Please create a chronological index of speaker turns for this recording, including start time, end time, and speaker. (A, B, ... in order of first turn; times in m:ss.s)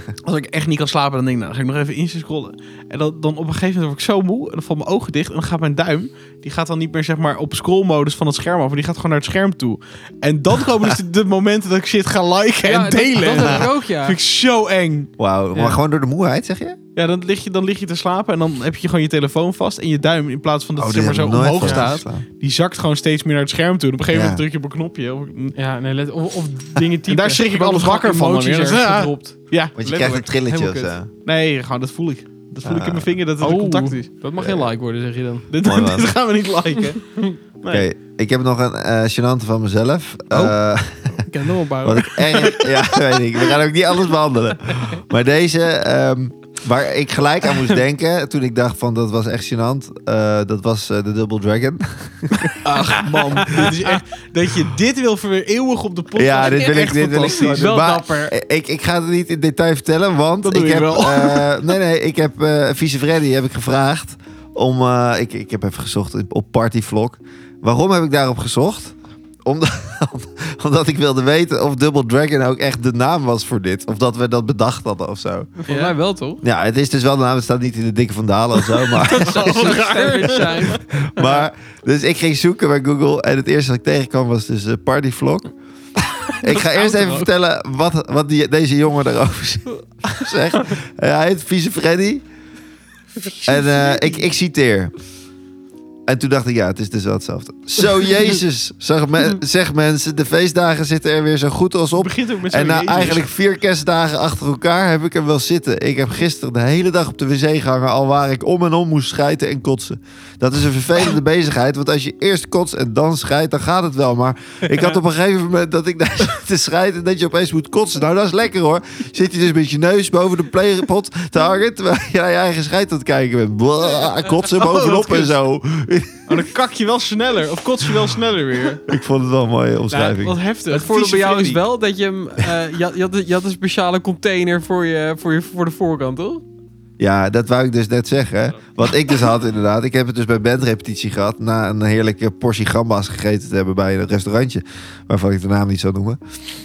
0:00.2-0:15.7 A
0:12.6-0:14.2 B
0:13.4-0:13.7 C
0:15.2-0:16.8 C
0:16.9-0:25.5 A
0:20.8-0:22.2 C
0:24.1-0:24.4 C
0:25.6-0:29.3 B
0:27.1-0:30.6 A
0:29.8-0:31.1 C
0:30.5-0:30.9 B
0:31.2-0:34.1 A
0:32.6-0:33.1 C
0:33.4-0:35.5 B
0:34.4-0:34.7 C
0:35.5-0:37.8 A
0:35.6-0:36.1 C
0:37.7-0:41.3 C
0:41.3-0:42.0 B
0:41.3-0:43.1 A
0:41.8-0:52.5 C
0:52.6-0:57.7 A
0:52.8-0:54.0 B
0:56.2-1:15.5 C
0:56.4-0:58.3 B
1:00.4-1:01.7 A
1:15.6-1:16.4 B
1:15.7-1:15.9 A
1:16.4-1:19.9 C
1:18.9-1:21.4 B
1:18.9-1:20.8 A
1:20.4-1:25.5 C
1:26.3-1:27.3 B
1:26.4-1:32.2 C
1:33.2-1:34.2 A
1:33.4-1:34.9 C
1:36.1-2:06.4 C
1:42.0-1:43.3 A
2:04.5-2:05.3 A
2:06.3-2:08.8 A
2:08.8-2:10.4 C
2:09.9-2:11.6 A
2:10.7-2:16.4 B
2:17.0-2:26.2 C